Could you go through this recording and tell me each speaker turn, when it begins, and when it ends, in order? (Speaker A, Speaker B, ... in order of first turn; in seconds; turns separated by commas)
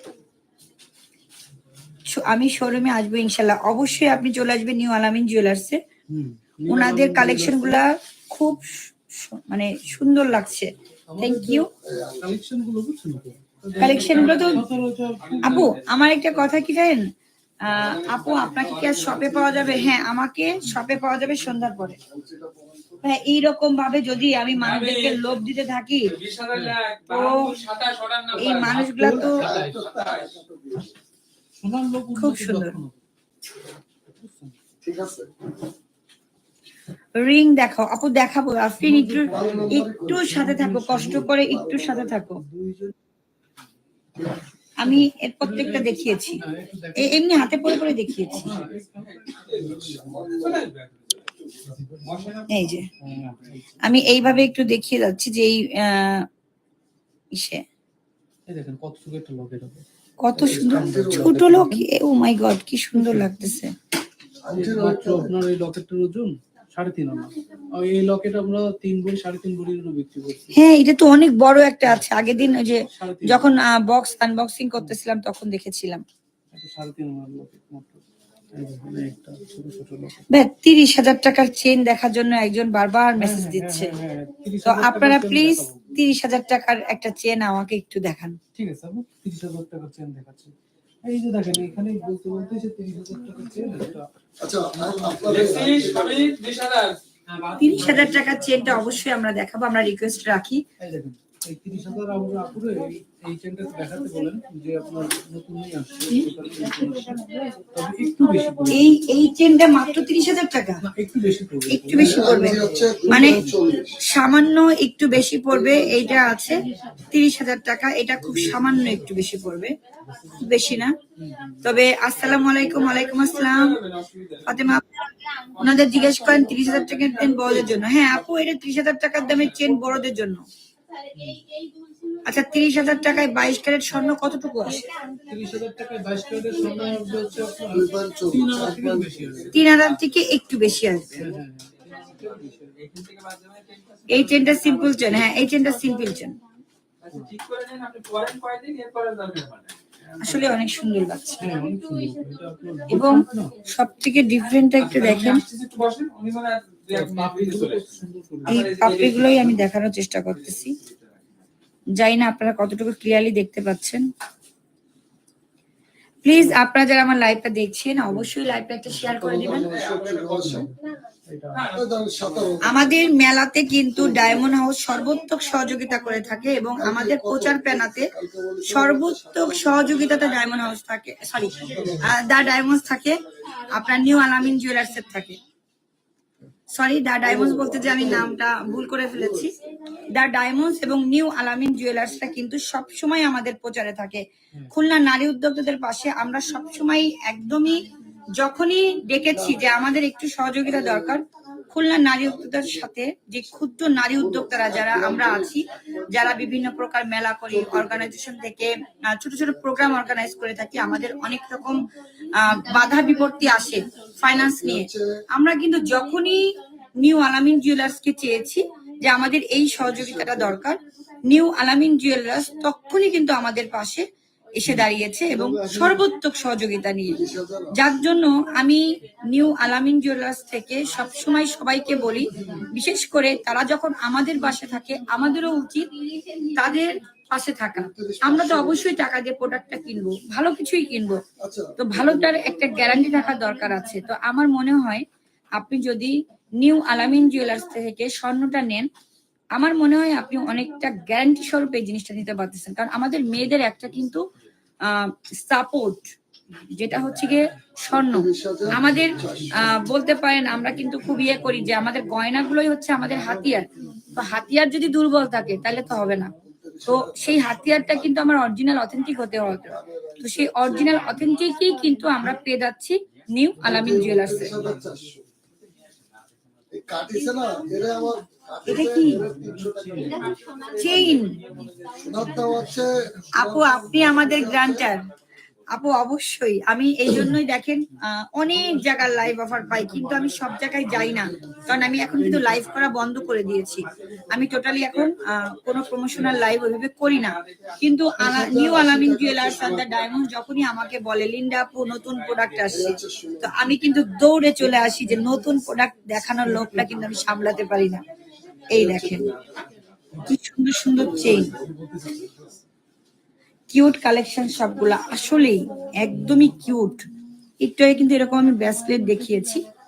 Speaker A: 2.1-5.8, Speaker B: 6.1-7.8, Speaker A: 6.7-11.7, Speaker B: 11.1-15.8, Speaker C: 11.8-12.3, Speaker A: 13.8-14.6, Speaker D: 14.1-14.5, Speaker D: 15.2-16.3, Speaker A: 15.4-17.1, Speaker A: 17.6-22.0, Speaker D: 17.7-19.9, Speaker C: 18.2-20.0, Speaker C: 22.0-23.2, Speaker A: 23.0-26.1, Speaker D: 24.5-25.2, Speaker D: 26.1-30.4, Speaker A: 27.1-27.5, Speaker A: 28.4-29.4, Speaker B: 28.7-29.8, Speaker C: 29.1-31.0, Speaker B: 31.6-33.0, Speaker A: 32.1-32.8, Speaker B: 34.1-34.5, Speaker C: 34.8-35.3, Speaker A: 37.2-42.4, Speaker B: 38.8-41.3, Speaker C: 39.3-42.2, Speaker B: 42.4-42.9, Speaker A: 44.8-46.4, Speaker B: 44.8-47.3, Speaker A: 47.0-48.5, Speaker B: 48.3-50.3, Speaker D: 49.0-51.3, Speaker C: 49.5-50.7, Speaker C: 51.3-51.7, Speaker B: 51.7-52.4, Speaker D: 52.0-52.7, Speaker A: 52.5-52.8, Speaker B: 53.0-54.5, Speaker A: 53.8-56.2, Speaker A: 57.3-57.6, Speaker B: 58.5-61.9, Speaker A: 60.2-63.7, Speaker C: 60.4-61.7, Speaker B: 62.9-63.6, Speaker C: 64.4-65.4, Speaker B: 64.5-70.6, Speaker A: 70.5-76.0, Speaker B: 72.8-73.6, Speaker B: 76.5-78.0, Speaker B: 78.5-80.2, Speaker A: 80.3-83.9, Speaker B: 83.2-86.0, Speaker A: 84.6-88.4, Speaker B: 88.5-90.5, Speaker B: 91.0-94.0, Speaker C: 94.4-96.3, Speaker B: 94.7-96.0, Speaker D: 95.2-97.0, Speaker B: 97.3-99.0, Speaker A: 97.6-100.6, Speaker B: 100.8-107.2, Speaker B: 107.7-108.9, Speaker A: 108.7-110.8, Speaker B: 110.8-113.6, Speaker A: 111.7-113.4, Speaker C: 111.9-114.0, Speaker A: 114.1-119.8, Speaker C: 115.5-116.3, Speaker B: 118.3-118.9, Speaker B: 120.1-120.5, Speaker A: 120.4-121.0, Speaker B: 121.2-121.6, Speaker A: 121.6-123.8, Speaker D: 122.5-124.6, Speaker A: 124.5-130.4, Speaker D: 125.6-127.7, Speaker B: 131.1-131.4, Speaker A: 132.2-134.8, Speaker B: 135.3-139.6, Speaker C: 137.7-139.6, Speaker A: 139.5-141.1, Speaker D: 139.7-139.9, Speaker D: 141.1-145.5, Speaker B: 141.2-142.7, Speaker A: 144.1-146.3, Speaker D: 147.0-150.5, Speaker A: 150.2-151.5, Speaker B: 151.4-153.5, Speaker A: 152.9-155.4, Speaker D: 154.8-159.6, Speaker B: 156.9-159.0, Speaker A: 158.5-160.8, Speaker D: 160.3-161.1, Speaker A: 162.0-164.1, Speaker A: 166.2-169.7, Speaker B: 168.0-168.3, Speaker B: 168.9-169.1, Speaker C: 169.2-170.7, Speaker D: 169.4-170.6, Speaker B: 170.4-170.7, Speaker B: 171.3-171.7, Speaker D: 171.5-172.5, Speaker C: 171.7-173.1, Speaker A: 172.6-178.1, Speaker C: 173.9-174.6, Speaker C: 176.8-180.5, Speaker A: 178.7-185.4, Speaker C: 181.4-182.8, Speaker A: 186.7-189.5, Speaker C: 187.2-190.1, Speaker A: 190.1-227.2, Speaker C: 192.0-192.8, Speaker C: 199.3-199.8, Speaker C: 200.6-202.9, Speaker C: 203.4-206.5, Speaker C: 207.5-208.2, Speaker C: 214.2-215.1, Speaker C: 219.8-220.6, Speaker C: 225.3-226.1, Speaker C: 227.1-227.8, Speaker A: 227.7-235.9, Speaker C: 231.9-232.7, Speaker A: 236.6-241.2, Speaker C: 237.7-239.0, Speaker C: 241.4-243.0, Speaker A: 241.8-245.1, Speaker A: 245.6-248.9, Speaker A: 249.6-254.2, Speaker A: 254.8-256.1, Speaker A: 256.7-266.3, Speaker C: 257.9-259.9, Speaker B: 258.7-259.8, Speaker C: 266.4-268.2, Speaker A: 266.9-274.6, Speaker C: 269.5-271.4, Speaker C: 273.6-275.2, Speaker B: 273.6-275.1, Speaker C: 276.7-280.4, Speaker A: 278.6-279.3, Speaker B: 279.0-280.4, Speaker D: 280.1-282.8, Speaker A: 280.7-281.4, Speaker C: 280.9-281.2, Speaker B: 281.5-281.7, Speaker C: 282.0-284.9, Speaker B: 282.4-282.9, Speaker A: 283.4-285.0, Speaker A: 285.7-308.0, Speaker C: 290.8-292.4, Speaker D: 293.9-296.6, Speaker D: 297.1-298.5, Speaker C: 298.2-299.9, Speaker D: 299.2-299.9, Speaker D: 301.9-302.9, Speaker C: 302.7-303.6, Speaker B: 306.5-307.1, Speaker A: 308.7-309.3, Speaker C: 308.7-309.4, Speaker D: 309.2-309.6, Speaker A: 310.2-311.5, Speaker C: 310.9-311.8, Speaker B: 310.9-312.3, Speaker A: 313.7-317.1, Speaker B: 316.2-316.5, Speaker A: 317.6-319.6